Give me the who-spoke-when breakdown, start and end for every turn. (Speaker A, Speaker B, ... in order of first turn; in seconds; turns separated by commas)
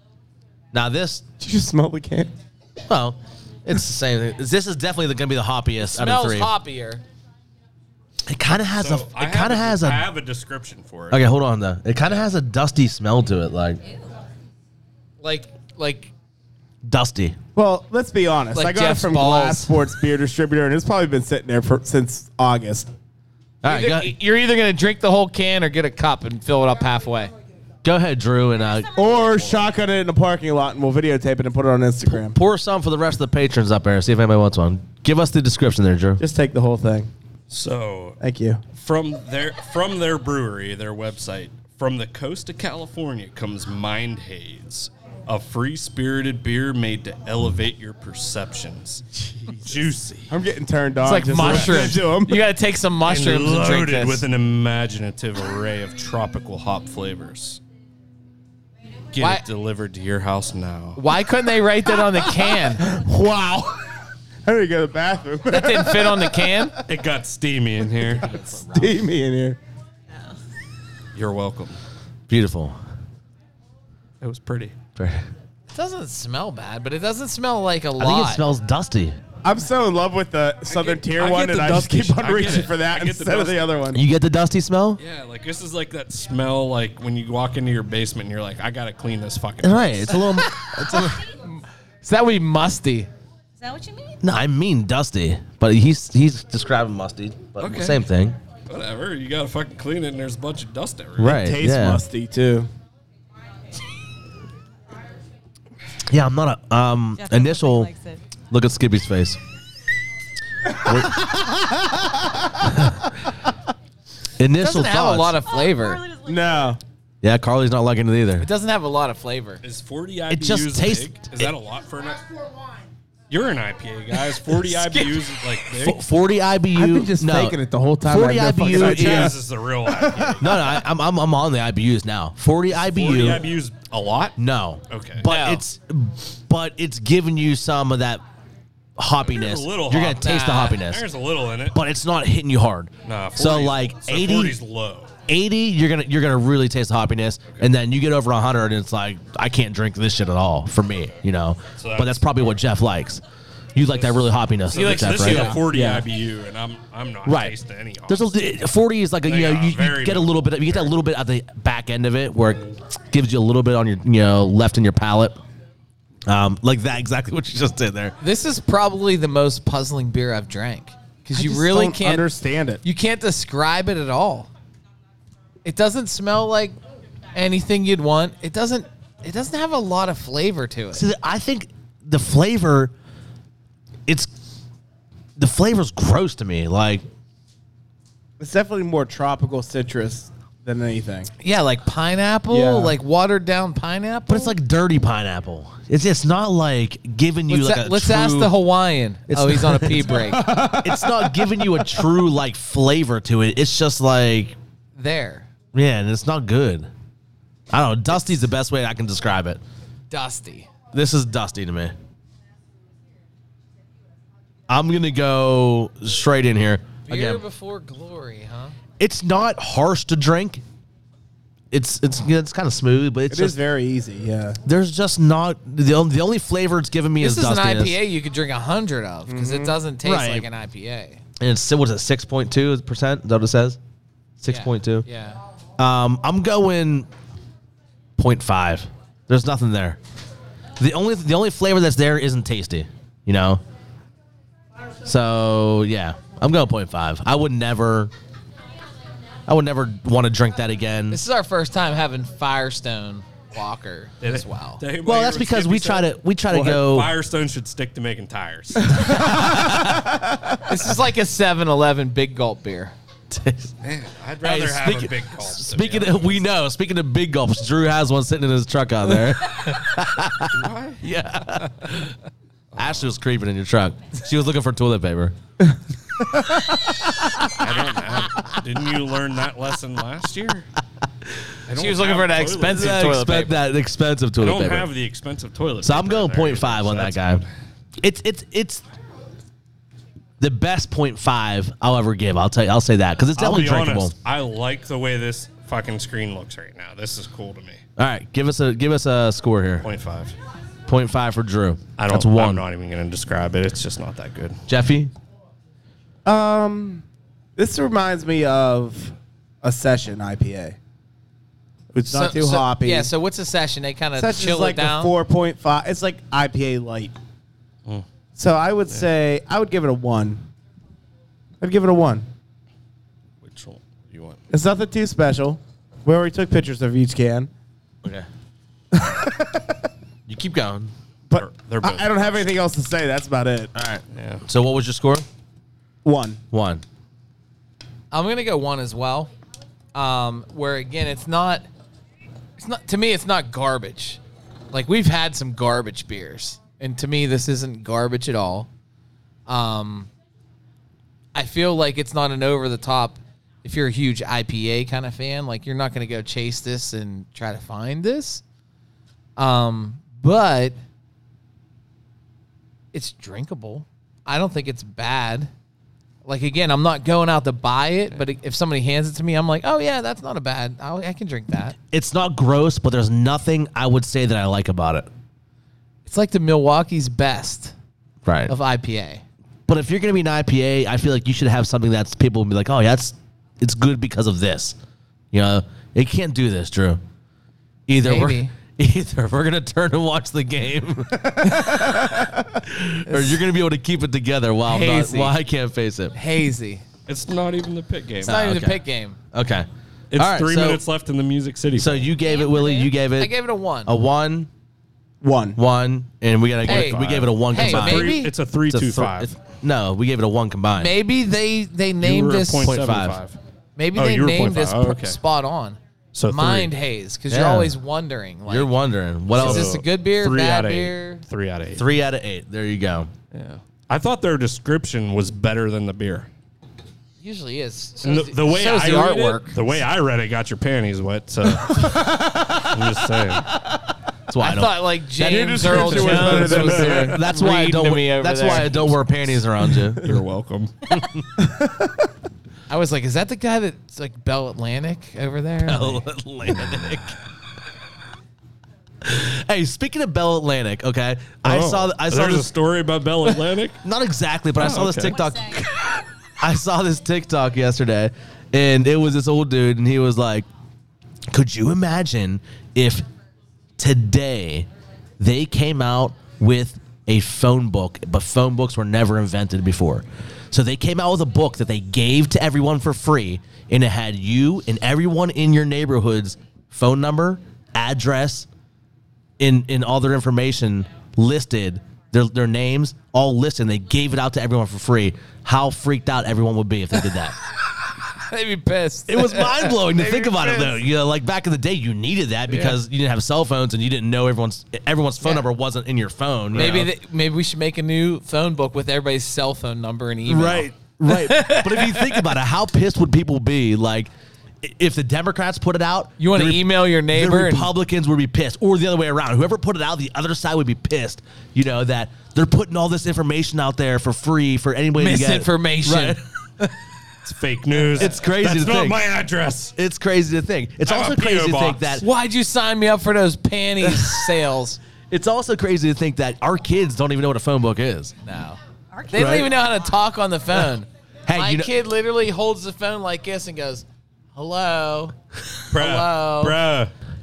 Speaker A: 0.7-1.2, Speaker B: 1.4-2.3, Speaker A: 2.9-6.5, Speaker C: 5.8-7.0, Speaker A: 8.3-10.1, Speaker D: 8.7-11.2, Speaker A: 11.1-13.8, Speaker C: 15.2-16.1, Speaker A: 16.8-17.4, Speaker B: 17.5-22.9, Speaker C: 18.5-19.8, Speaker A: 23.6-24.1, Speaker C: 23.6-27.3, Speaker A: 27.8-28.9, Speaker B: 28.9-32.4, Speaker A: 32.0-36.2, Speaker B: 36.2-37.1, Speaker D: 37.5-38.2, Speaker B: 38.2-38.6, Speaker D: 38.8-50.3, Speaker B: 50.3-52.4, Speaker C: 51.0-54.2, Speaker D: 51.4-51.9, Speaker D: 53.0-57.6, Speaker D: 59.1-61.0, Speaker C: 59.2-59.4, Speaker C: 61.0-62.8, Speaker B: 62.4-63.8, Speaker B: 64.4-66.8, Speaker C: 65.5-66.7, Speaker D: 66.9-68.4, Speaker B: 68.3-69.6, Speaker C: 68.3-69.0, Speaker D: 71.1-71.8, Speaker A: 72.3-72.8, Speaker D: 74.2-74.7, Speaker A: 75.0-75.2, Speaker C: 75.7-78.4, Speaker A: 78.0-79.2, Speaker B: 79.4-84.0, Speaker D: 80.7-83.8, Speaker A: 83.9-85.0, Speaker D: 85.0-90.2, Speaker A: 89.6-91.2, Speaker C: 92.0-93.1, Speaker E: 93.6-94.2, Speaker A: 94.2-98.4, Speaker D: 97.6-98.0, Speaker D: 98.7-101.4, Speaker A: 101.2-102.0, Speaker B: 101.2-102.7, Speaker A: 106.1-107.9, Speaker E: 107.2-108.2, Speaker A: 108.5-109.4, Speaker A: 110.8-111.1, Speaker B: 110.8-111.9, Speaker A: 112.6-113.1, Speaker A: 114.4-115.4, Speaker C: 114.6-116.0, Speaker E: 115.5-116.7, Speaker B: 116.2-116.8, Speaker A: 117.2-118.5, Speaker C: 118.4-119.6, Speaker D: 119.6-122.2, Speaker A: 120.3-121.5, Speaker D: 123.3-126.0, Speaker C: 124.1-125.6, Speaker A: 125.8-129.4, Speaker B: 126.7-130.6, Speaker D: 128.7-130.6, Speaker A: 130.4-133.4, Speaker D: 132.7-134.4, Speaker A: 134.4-138.2, Speaker D: 134.9-135.2, Speaker C: 135.2-135.6, Speaker A: 139.0-141.1, Speaker D: 139.2-141.8, Speaker C: 140.2-140.8, Speaker A: 141.7-144.6, Speaker D: 143.0-145.1, Speaker A: 145.3-153.2, Speaker D: 151.8-152.6, Speaker A: 153.7-155.6, Speaker D: 153.9-158.3, Speaker C: 154.7-155.6, Speaker B: 155.3-156.0, Speaker A: 157.2-157.6, Speaker A: 158.1-165.4, Speaker D: 159.2-160.9, Speaker A: 166.3-168.2, Speaker C: 168.2-172.2, Speaker B: 171.3-172.8, Speaker C: 172.8-174.5, Speaker C: 175.6-176.8, Speaker C: 177.3-181.1, Speaker A: 180.9-182.9, Speaker A: 185.4-187.0, Speaker B: 188.4-191.3, Speaker C: 191.4-194.6, Speaker B: 192.5-192.9, Speaker A: 194.3-198.5, Speaker C: 197.5-200.5, Speaker A: 199.3-200.2, Speaker B: 200.1-201.7, Speaker A: 200.7-204.6, Speaker C: 204.9-205.5, Speaker A: 205.7-206.9, Speaker A: 207.7-209.6, Speaker C: 210.1-210.7, Speaker A: 210.9-211.9, Speaker A: 214.7-217.4, Speaker C: 217.1-218.8, Speaker A: 219.0-220.6, Speaker A: 221.7-223.6, Speaker B: 223.3-224.6, Speaker A: 224.6-228.0, Speaker C: 227.2-231.2, Speaker B: 229.3-229.8, Speaker A: 230.0-230.5, Speaker A: 231.4-233.8, Speaker A: 234.4-235.1, Speaker C: 234.5-235.4, Speaker A: 235.8-237.1, Speaker A: 238.2-240.0, Speaker A: 240.8-243.6, Speaker A: 245.0-248.1, Speaker A: 249.5-251.2, Speaker C: 251.1-254.8, Speaker D: 254.2-259.1, Speaker A: 255.0-257.1, Speaker A: 259.0-260.1, Speaker B: 259.5-259.9, Speaker C: 260.6-262.9, Speaker A: 263.3-263.7, Speaker D: 263.8-266.4, Speaker A: 264.4-272.1, Speaker D: 270.5-271.1, Speaker D: 272.7-273.1, Speaker A: 272.8-275.3, Speaker D: 277.5-280.7, Speaker D: 281.7-283.3, Speaker C: 281.7-283.6, Speaker A: 282.7-284.9, Speaker D: 284.4-287.5, Speaker A: 285.8-287.4, Speaker A: 288.0-288.8, Speaker A: 290.4-294.1, Speaker D: 293.4-297.8, Speaker A: 298.0-299.9, Speaker D: 299.8-300.3, Speaker A: 300.9-302.6, Speaker D: 302.0-304.6, Speaker A: 304.7-305.1, Speaker B: 306.2-307.0, Speaker B: 307.6-310.8, Speaker B: 311.9-313.1, Speaker C: 312.1-315.1, Speaker B: 314.2-317.1, Speaker B: 318.4-320.4, Speaker B: 321.6-322.3, Speaker D: 323.4-324.4, Speaker B: 324.5-327.5, Speaker B: 328.9-329.7, Speaker A: 330.3-330.9, Speaker B: 331.3-333.7, Speaker D: 331.3-332.5, Speaker A: 333.7-335.2, Speaker D: 334.1-334.4, Speaker B: 336.0-336.4, Speaker A: 336.5-336.8, Speaker C: 338.1-339.3, Speaker C: 339.9-341.7, Speaker C: 342.6-344.2, Speaker C: 344.7-348.7, Speaker C: 349.5-350.1, Speaker C: 351.3-358.4, Speaker C: 359.4-360.8, Speaker C: 362.9-365.5, Speaker C: 366.2-371.8, Speaker A: 371.9-375.1, Speaker C: 376.1-377.7, Speaker A: 378.2-378.5, Speaker C: 378.5-379.2, Speaker A: 379.7-384.8, Speaker A: 385.3-387.0, Speaker A: 387.9-396.1, Speaker C: 388.0-388.5, Speaker C: 393.1-393.4, Speaker C: 394.6-395.4, Speaker C: 396.1-396.8, Speaker D: 397.1-398.4, Speaker C: 398.2-399.2, Speaker A: 398.2-398.8, Speaker A: 399.3-400.8, Speaker D: 400.1-402.1, Speaker A: 401.8-403.3, Speaker E: 402.2-402.9, Speaker C: 403.2-403.9, Speaker A: 403.9-404.5, Speaker B: 405.2-405.6, Speaker A: 405.6-408.2, Speaker D: 406.6-409.3, Speaker C: 406.6-408.3, Speaker A: 408.7-410.9, Speaker C: 410.7-412.7, Speaker D: 412.0-413.4, Speaker A: 412.6-413.2, Speaker C: 413.8-418.7, Speaker D: 413.9-415.2, Speaker D: 416.1-416.7, Speaker A: 417.3-417.8, Speaker A: 418.5-419.8, Speaker C: 419.3-421.2, Speaker D: 419.3-421.9, Speaker A: 421.7-423.1, Speaker D: 423.3-426.3, Speaker C: 427.2-429.6, Speaker D: 428.0-433.5, Speaker B: 432.0-432.5, Speaker A: 434.3-440.1, Speaker C: 434.4-439.1, Speaker B: 435.2-437.2, Speaker D: 436.1-437.1, Speaker D: 440.0-440.7, Speaker A: 440.9-441.2, Speaker B: 441.4-441.9, Speaker C: 442.7-446.0, Speaker A: 445.6-447.2, Speaker D: 446.6-446.9, Speaker A: 449.0-452.5, Speaker D: 451.4-453.8, Speaker A: 453.8-455.6, Speaker D: 454.6-455.2, Speaker E: 455.1-455.6, Speaker A: 456.4-460.5, Speaker A: 461.3-463.0, Speaker A: 463.8-464.7, Speaker A: 465.2-478.5, Speaker A: 479.4-487.4, Speaker C: 488.1-490.8, Speaker A: 489.1-496.9, Speaker D: 496.5-496.8, Speaker C: 496.5-502.3, Speaker A: 500.2-504.1, Speaker A: 504.6-516.2, Speaker C: 506.2-507.7, Speaker C: 515.0-516.7, Speaker D: 517.2-519.7, Speaker A: 517.9-519.1, Speaker A: 519.8-522.0, Speaker D: 520.8-521.9, Speaker C: 522.0-524.8, Speaker A: 523.8-524.3, Speaker A: 525.1-528.1, Speaker C: 528.2-535.1, Speaker E: 528.9-529.8, Speaker A: 529.1-529.5, Speaker A: 531.2-531.7, Speaker D: 535.7-536.9, Speaker C: 535.7-536.6